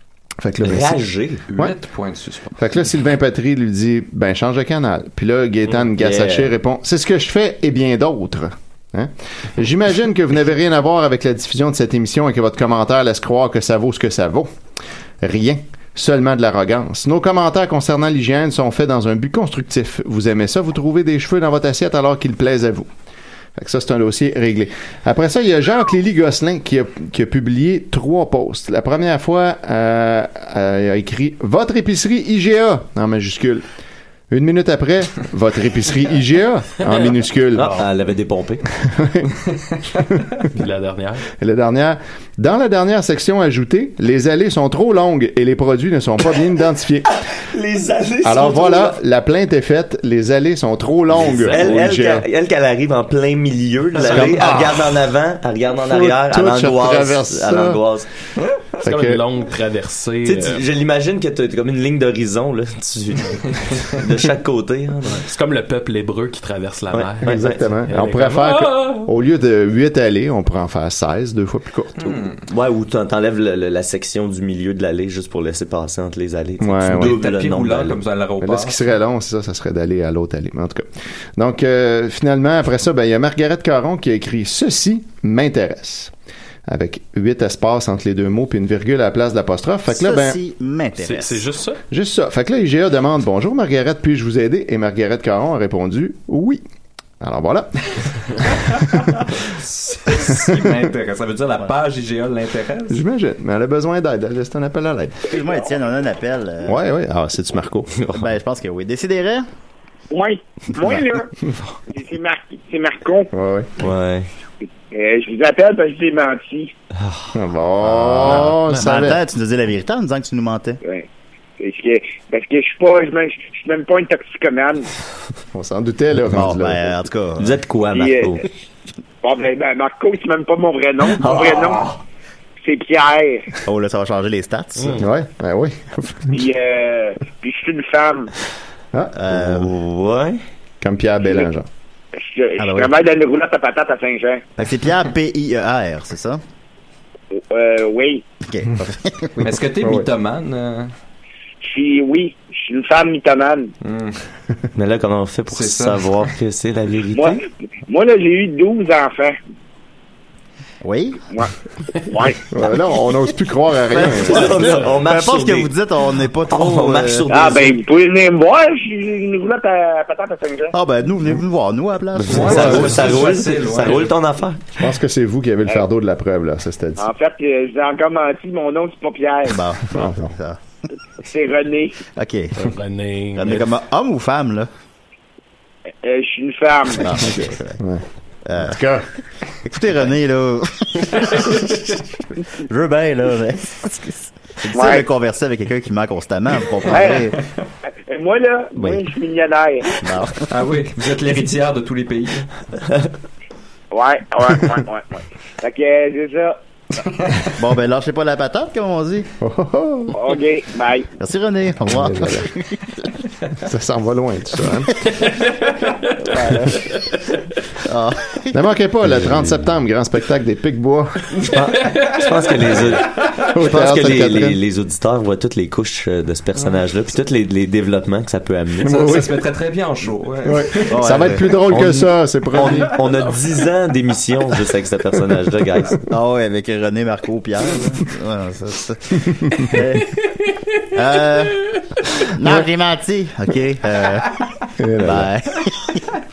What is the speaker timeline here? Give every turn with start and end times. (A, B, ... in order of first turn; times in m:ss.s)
0:00.4-0:01.0 A
0:00.6-0:01.4 B
0:01.5-0:02.6 C
0:02.6-0:14.5 A
0:05.9-0:06.5 B
0:15.2-0:22.9 A
0:23.6-0:33.6 A
0:34.3-0:37.8 A
0:37.6-0:38.6 B
0:38.8-0:39.3 A
0:40.1-0:40.4 A
0:40.4-0:41.2 D
0:41.4-0:47.1 A
0:47.2-0:49.0 B
0:48.2-0:52.2 A
0:51.2-0:51.8 D
0:51.5-0:58.1 B
0:54.0-0:54.9 A
0:55.8-0:57.8 A
0:58.8-1:00.6 D
0:58.8-0:59.2 A
1:00.2-1:05.2 B
1:05.1-1:09.1 D
1:06.9-1:07.6 B
1:07.2-1:12.0 A
1:12.0-1:12.4 C
1:12.1-1:18.0 B
1:16.6-1:17.2 A
1:16.9-1:18.8 C
1:18.4-1:26.1 A
1:26.7-1:30.4 A
1:29.9-1:31.4 E
1:31.0-1:31.8 D
1:31.9-1:36.6 A
1:37.2-1:39.3 A
1:39.4-1:43.0 C
1:40.1-1:40.7 A
1:42.9-1:45.2 A
1:45.3-1:46.8 E
1:46.6-1:47.9 A
1:48.1-1:49.5 E
1:50.1-1:51.3 F
1:51.9-1:53.3 F
1:53.3-1:53.7 A
1:53.8-1:54.3 B
1:54.9-1:56.7 F
1:56.9-1:57.3 B
1:57.3-1:59.2 A
1:58.0-2:00.8 E
1:58.4-1:59.1 D
2:01.6-2:04.9 F
2:05.5-2:06.9 A
2:06.3-2:07.6 E
2:07.4-2:08.5 B
2:07.9-2:08.4 F
2:09.2-2:11.8 F
2:11.2-2:12.0 B
2:12.6-2:13.5 F
2:13.6-2:15.0 E
2:15.0-2:16.5 A
2:16.3-2:18.3 F
2:19.1-2:19.7 E
2:19.3-2:20.4 B
2:20.8-2:21.7 A
2:22.1-2:24.4 F
2:22.6-2:22.9 E
2:24.6-2:26.4 E
2:27.3-2:28.2 F
2:28.4-2:29.5 E
2:29.4-2:30.9 C
2:29.8-2:30.1 A
2:31.6-2:33.7 F
2:33.8-2:34.2 C
2:34.7-2:37.4 B
2:35.5-2:36.3 C
2:37.1-2:39.4 F
2:40.8-2:41.2 E
2:42.1-2:42.4 F
2:42.5-2:44.6 A
2:44.0-2:45.7 B
2:44.0-2:47.3 E
2:46.5-2:47.8 B
2:47.3-2:50.7 F
2:50.7-2:53.0 E
2:52.3-2:54.1 C
2:52.3-2:54.8 B
2:52.5-2:52.9 A
2:54.8-2:57.1 A
2:57.0-2:59.6 F
2:59.5-3:00.6 E
2:59.9-3:00.3 A
3:01.2-3:02.0 F
3:02.2-3:02.7 E
3:02.6-3:03.7 D
3:03.4-3:04.7 E
3:06.0-3:07.1 F
3:06.9-3:07.8 E
3:08.4-3:08.8 E
3:08.6-3:09.1 A
3:09.6-3:17.4 E
3:14.7-3:15.1 F
3:16.9-3:17.3 F
3:18.1-3:19.9 F
3:18.8-3:19.1 E
3:20.0-3:20.5 E
3:20.5-3:22.5 C
3:23.9-3:26.6 F
3:27.0-3:27.5 C
3:27.6-3:29.3 E
3:29.4-3:30.2 A
3:30.1-3:31.1 F
3:31.2-3:33.1 E
3:31.8-3:32.5 A
3:33.6-3:35.1 A
3:35.2-3:36.0 D
3:36.2-3:36.8 E
3:36.9-3:37.2 D
3:37.8-3:38.6 E
3:38.5-3:41.3 A
3:41.4-3:49.0 B
3:41.8-3:42.9 D
3:43.5-3:44.6 A
3:48.8-3:51.0 C
3:48.8-3:49.4 A
3:50.4-3:52.9 A
3:50.9-3:51.6 E
3:51.7-3:56.0 B
3:56.1-4:00.2 E
3:59.4-3:59.7 A
4:00.9-4:04.4 E
4:04.8-4:05.3 A
4:05.0-4:06.1 E